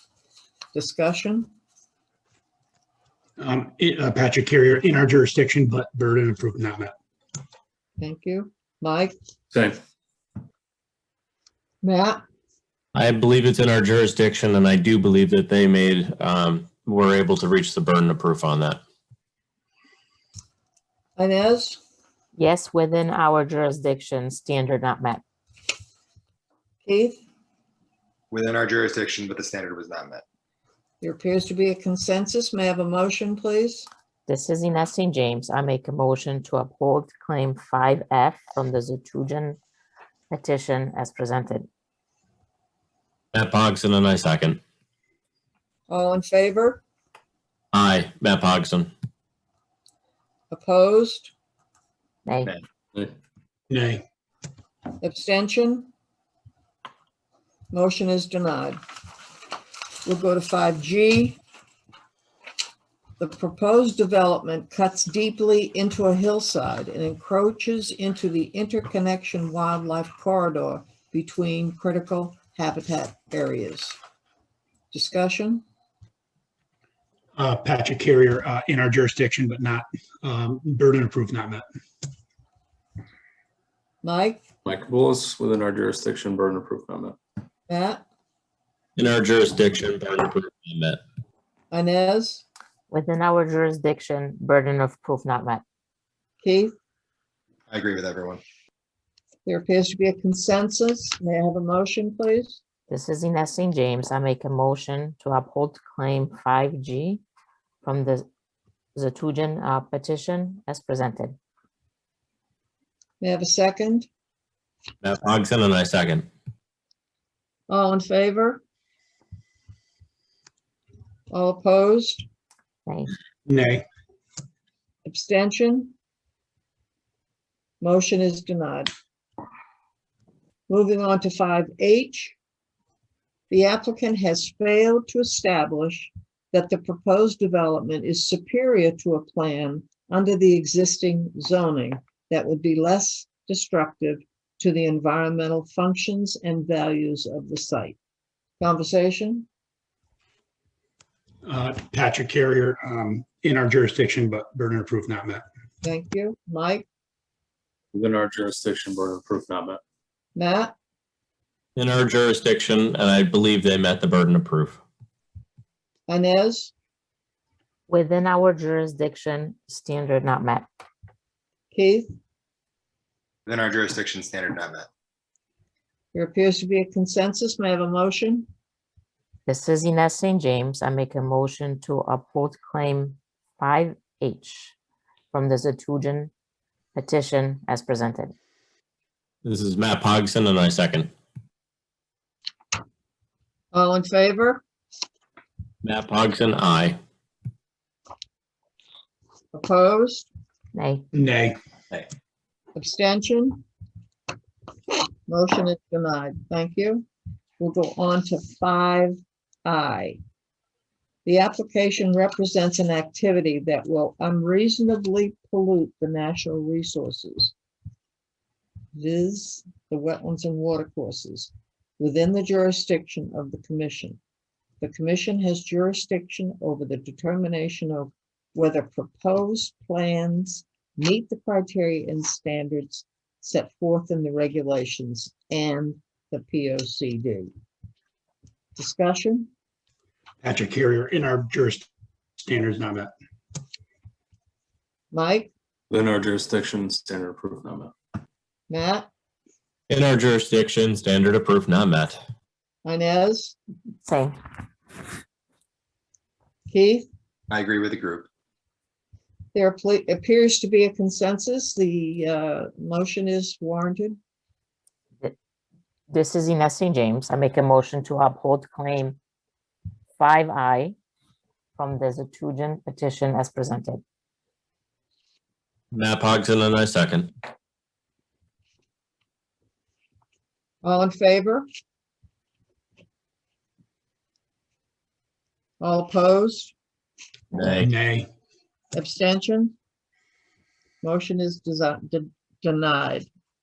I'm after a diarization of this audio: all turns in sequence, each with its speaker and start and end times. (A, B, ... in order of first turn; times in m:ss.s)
0:00.7-0:01.5 A
0:03.4-0:06.9 B
0:08.0-0:09.1 A
0:09.5-0:09.8 C
0:11.8-0:12.2 A
0:12.9-0:18.8 D
0:21.2-0:21.8 A
0:22.4-0:25.2 E
0:26.8-0:27.2 A
0:28.3-0:30.2 F
0:31.0-0:33.9 A
0:34.3-0:39.6 E
0:40.3-0:41.7 E
0:43.3-0:44.6 D
0:45.9-0:46.8 A
0:47.7-0:48.9 D
0:50.5-0:51.3 A
0:52.3-0:52.5 E
0:53.7-0:54.0 B
0:55.0-0:55.9 A
0:57.7-0:58.8 A
1:00.0-1:01.4 A
1:03.2-1:14.0 A
1:14.9-1:15.6 A
1:17.4-1:21.6 B
1:24.0-1:24.4 A
1:24.6-1:27.2 C
1:27.7-1:28.0 A
1:29.0-1:31.0 D
1:31.7-1:32.4 A
1:32.9-1:35.6 E
1:36.4-1:36.7 A
1:37.7-1:38.4 F
1:39.4-1:42.6 A
1:42.9-1:47.2 E
1:47.8-1:48.2 E
1:49.0-1:51.4 E
1:53.2-1:54.1 A
1:55.0-1:56.3 D
1:57.7-1:58.6 A
2:01.3-2:02.2 A
2:02.8-2:03.1 E
2:03.4-2:03.8 B
2:05.0-2:05.9 A
2:07.8-2:08.9 A
2:10.7-2:12.3 A
2:13.5-2:28.0 A
2:28.6-2:29.5 A
2:31.4-2:35.4 B
2:35.8-2:36.8 A
2:37.9-2:39.8 C
2:40.3-2:40.7 A
2:41.8-2:44.8 D
2:46.1-2:46.7 A
2:47.9-2:50.6 E
2:51.7-2:52.1 A
2:53.4-2:54.9 F
2:56.1-2:58.5 A
2:59.5-3:04.7 E
3:05.3-3:06.3 E
3:07.0-3:08.3 E
3:09.4-3:11.1 D
3:13.7-3:14.6 A
3:15.8-3:17.0 D
3:19.5-3:20.3 A
3:20.7-3:21.0 E
3:21.1-3:21.6 B
3:22.8-3:23.6 A
3:25.3-3:27.0 A
3:27.6-3:30.2 A
3:31.2-3:37.5 A
3:38.9-3:44.2 A
3:44.8-3:57.5 A
3:58.8-3:59.5 A
4:00.4-4:01.9 B
4:02.4-4:03.1 B
4:05.1-4:05.5 A
4:05.9-4:07.9 C
4:08.7-4:09.1 A
4:09.9-4:12.2 D
4:12.8-4:13.6 A
4:14.0-4:14.3 E
4:16.7-4:17.0 A
4:17.5-4:18.3 F
4:19.5-4:24.2 A
4:26.1-4:29.2 E
4:30.2-4:30.9 E
4:31.8-4:34.0 E
4:35.9-4:37.3 D
4:40.8-4:41.6 A
4:45.8-4:46.7 A
4:47.6-4:48.3 B
4:48.9-4:49.7 A
4:51.0-4:53.3 A